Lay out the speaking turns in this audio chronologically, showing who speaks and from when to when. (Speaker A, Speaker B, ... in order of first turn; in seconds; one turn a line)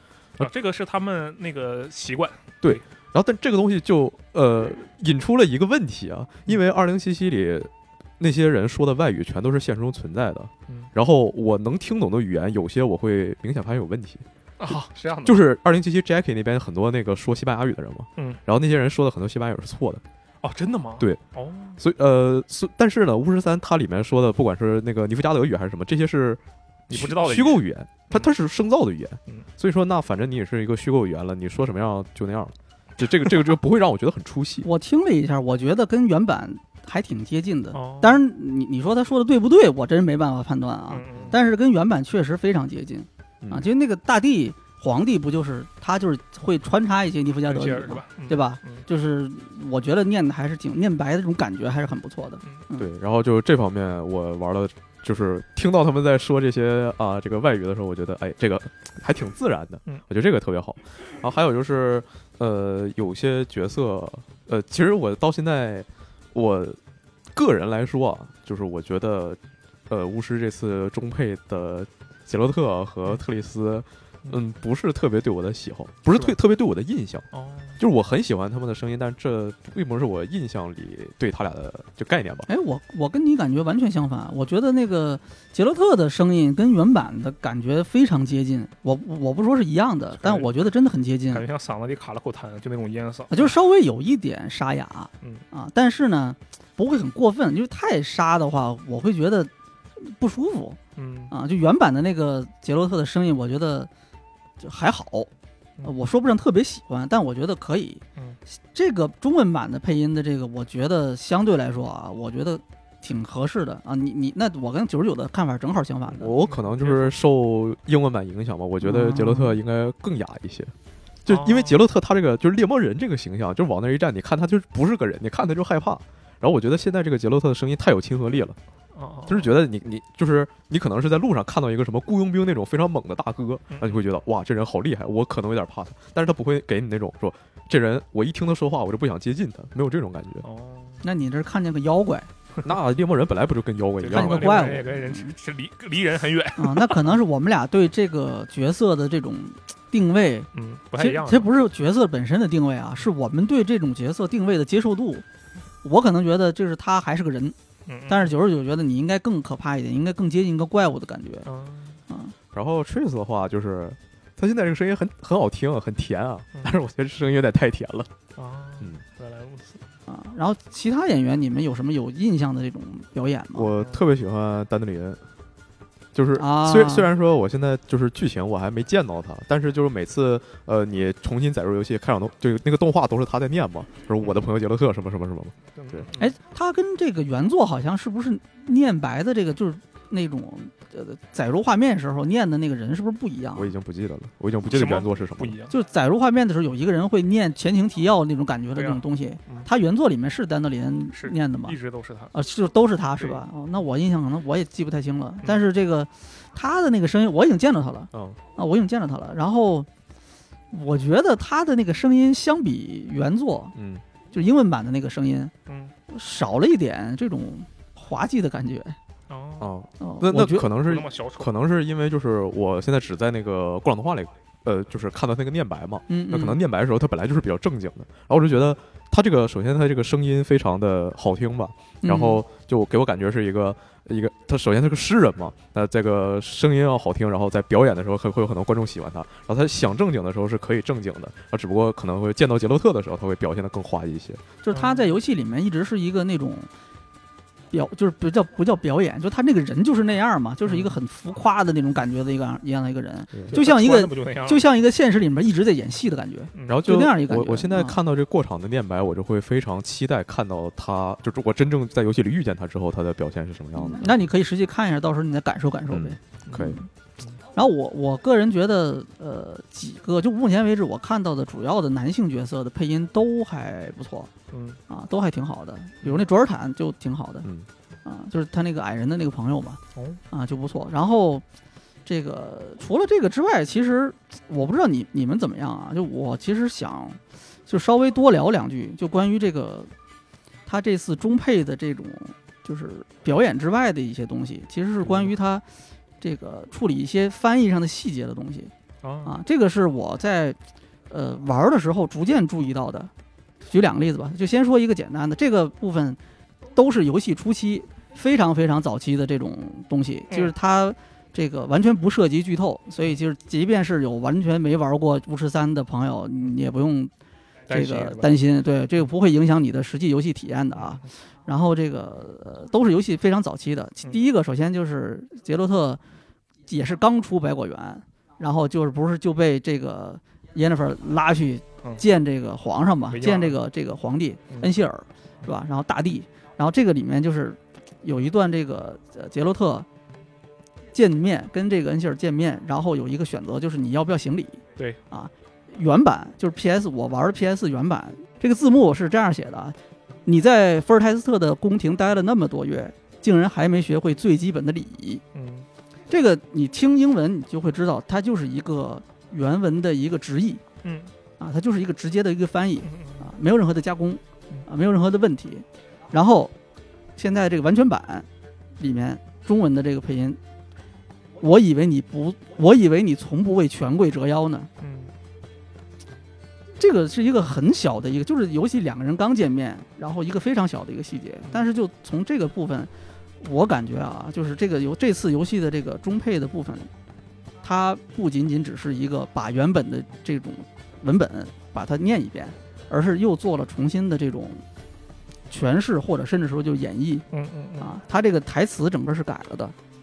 Speaker A: 0.4-2.8
Speaker B: 2.6-20.0
Speaker A: 14.6-15.5
Speaker A: 20.4-21.8
Speaker B: 21.8-34.7
Speaker A: 26.9-28.3
Speaker C: 34.6-52.9
Speaker A: 37.7-38.2
Speaker A: 40.9-41.4
Speaker A: 47.5-48.9
Speaker B: 52.8-66.8
Speaker B: 67.3-77.2
Speaker A: 77.3-77.8
Speaker B: 77.8-82.5
Speaker C: 82.5-91.4
Speaker A: 90.2-90.5
Speaker A: 91.3-93.5
Speaker C: 93.3-100.8
Speaker A: 101.0-101.3
Speaker C: 101.3-103.9
Speaker C: 104.6-105.3
Speaker C: 105.8-108.0
Speaker C: 108.7-116.3
Speaker B: 116.2-120.7
Speaker A: 116.4-117.1
Speaker C: 118.8-119.6
Speaker B: 121.2-128.6
Speaker A: 121.3-121.8
Speaker A: 128.9-129.6
Speaker B: 129.3-140.5
Speaker A: 133.7-134.0
Speaker A: 140.4-141.0
Speaker C: 141.0-142.3
Speaker B: 142.7-144.8
Speaker A: 144.0-147.2
Speaker C: 144.1-145.3
Speaker C: 146.6-155.2
Speaker A: 150.5-151.5
Speaker C: 155.8-157.6
Speaker A: 157.9-158.3
Speaker C: 158.1-161.5
Speaker A: 161.5-162.0
Speaker C: 162.1-162.3
Speaker B: 162.5-168.1
Speaker A: 168.4-169.8
Speaker C: 170.1-173.7
Speaker B: 173.6-175.2
Speaker A: 173.8-174.0
Speaker B: 176.1-186.1
Speaker C: 176.4-177.1
Speaker A: 185.8-186.3
Speaker C: 186.2-193.7
Speaker B: 193.6-195.6
Speaker A: 194.7-195.8
Speaker C: 195.7-201.8
Speaker A: 198.8-199.7
Speaker A: 201.1-202.3
Speaker C: 202.3-209.9
Speaker B: 208.1-208.4
Speaker C: 210.7-213.8
Speaker B: 213.8-214.0
Speaker C: 214.3-215.5
Speaker A: 215.7-215.9
Speaker C: 216.1-219.0
Speaker A: 219.3-219.8
Speaker B: 219.6-244.4
Speaker C: 220.0-220.7
Speaker A: 220.7-221.5
Speaker C: 226.1-226.6
Speaker C: 232.0-232.4
Speaker C: 244.6-246.7
Speaker A: 244.7-245.2
Speaker C: 247.7-258.0
Speaker A: 250.7-250.9
Speaker A: 253.5-254.6
Speaker A: 256.5-256.8
Speaker B: 256.7-264.1
Speaker C: 263.8-266.9
Speaker B: 265.9-266.8
Speaker A: 266.5-267.4
Speaker C: 267.6-274.3
Speaker A: 274.5-274.8
Speaker C: 274.9-277.5
Speaker C: 278.1-279.8
Speaker A: 279.9-280.2
Speaker C: 280.3-281.4
Speaker C: 282.1-289.9
Speaker C: 290.7-295.6
Speaker C: 296.2-298.7
Speaker A: 299.0-299.4
Speaker C: 299.2-300.6
Speaker C: 301.1-303.1
Speaker C: 303.6-306.2
Speaker C: 306.8-317.1
Speaker A: 317.7-318.3
Speaker C: 317.7-326.0
Speaker A: 320.8-321.1
Speaker C: 326.7-339.9
Speaker A: 333.1-333.6
Speaker C: 340.9-355.2
Speaker A: 355.3-355.7
Speaker C: 356.1-360.6
Speaker A: 360.8-361.1
Speaker C: 361.4-366.5
Speaker A: 362.9-363.3
Speaker C: 367.2-368.3
Speaker C: 368.8-370.4
Speaker C: 371.4-374.7
Speaker A: 374.8-375.1
Speaker C: 376.8-382.9
Speaker C: 383.4-386.9
Speaker C: 387.6-394.6
Speaker C: 395.5-397.2
Speaker A: 397.3-398.0
Speaker C: 397.8-399.8